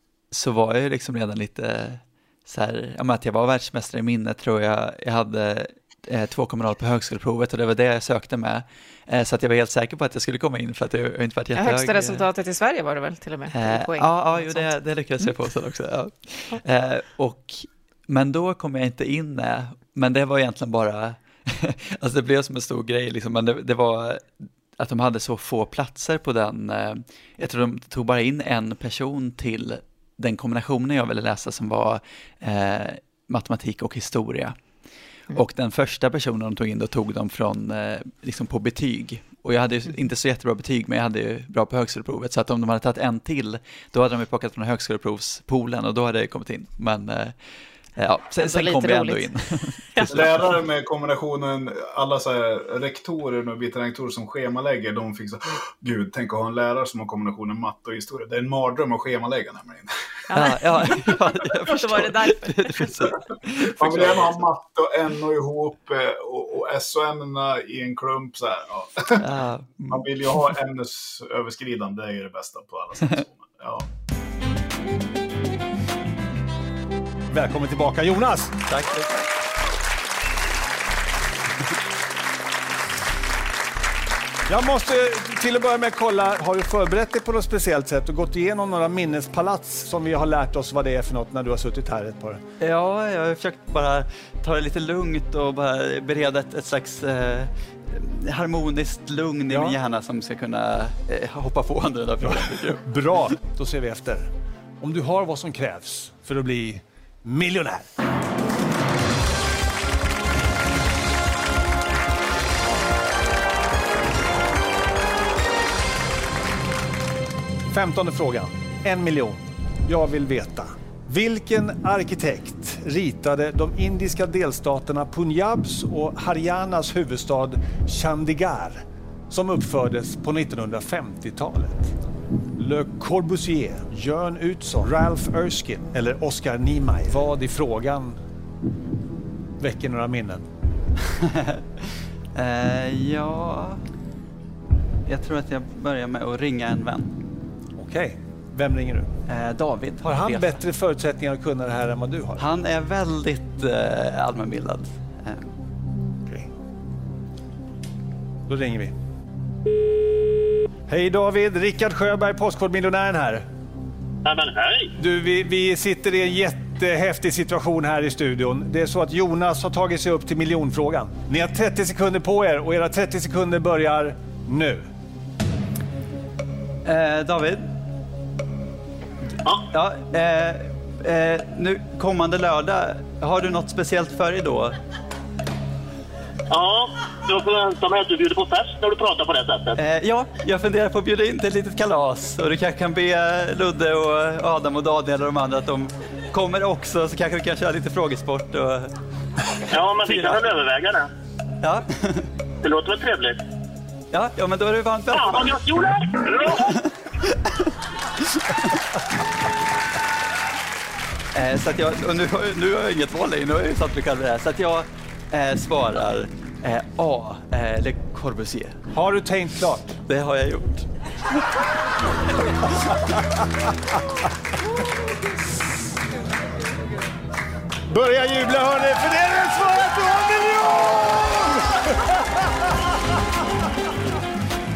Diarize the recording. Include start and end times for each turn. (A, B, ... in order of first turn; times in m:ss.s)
0:00.3-0:12.2 A
0:11.5-0:14.7 B
0:13.5-0:34.6 A
0:35.3-0:47.4 A
0:48.0-0:50.4 A
0:48.4-0:49.4 B
0:49.9-0:50.2 B
0:50.1-0:59.9 C
1:00.3-1:02.9 B
1:00.3-1:04.4 A
1:03.8-1:13.8 C
1:09.2-1:10.5 A
1:17.3-1:18.6 D
1:18.7-1:19.2 A
1:24.5-1:32.4 D
1:32.6-1:42.8 A
1:39.5-1:39.8 D
1:42.2-1:47.9 D
1:57.7-2:11.9 D
2:12.6-2:18.2 D
2:19.6-2:20.4 D
2:21.0-2:21.6 A
2:22.3-2:23.8 A
2:25.0-2:27.2 A
2:27.8-2:29.1 D
2:29.3-2:30.6 A
2:30.0-2:32.4 D
2:32.4-2:35.5 A
2:38.5-2:38.9 D
2:40.9-2:43.4 D
2:44.2-2:44.9 E
2:45.0-2:54.9 D
2:56.8-2:57.7 A
2:59.7-3:04.8 A
3:06.5-3:09.8 E
3:09.7-3:18.9 A
3:19.7-3:21.1 E
3:20.0-3:20.4 A
3:21.6-3:22.3 A
3:22.6-3:23.4 E
3:24.1-3:25.6 A
3:25.1-3:26.8 E
3:26.5-3:27.7 A
3:28.2-3:28.8 A
3:31.3-3:38.8 A
3:38.9-3:40.0 D
3:40.0-3:40.9 A
3:43.0-3:43.7 D
3:47.9-3:51.9 D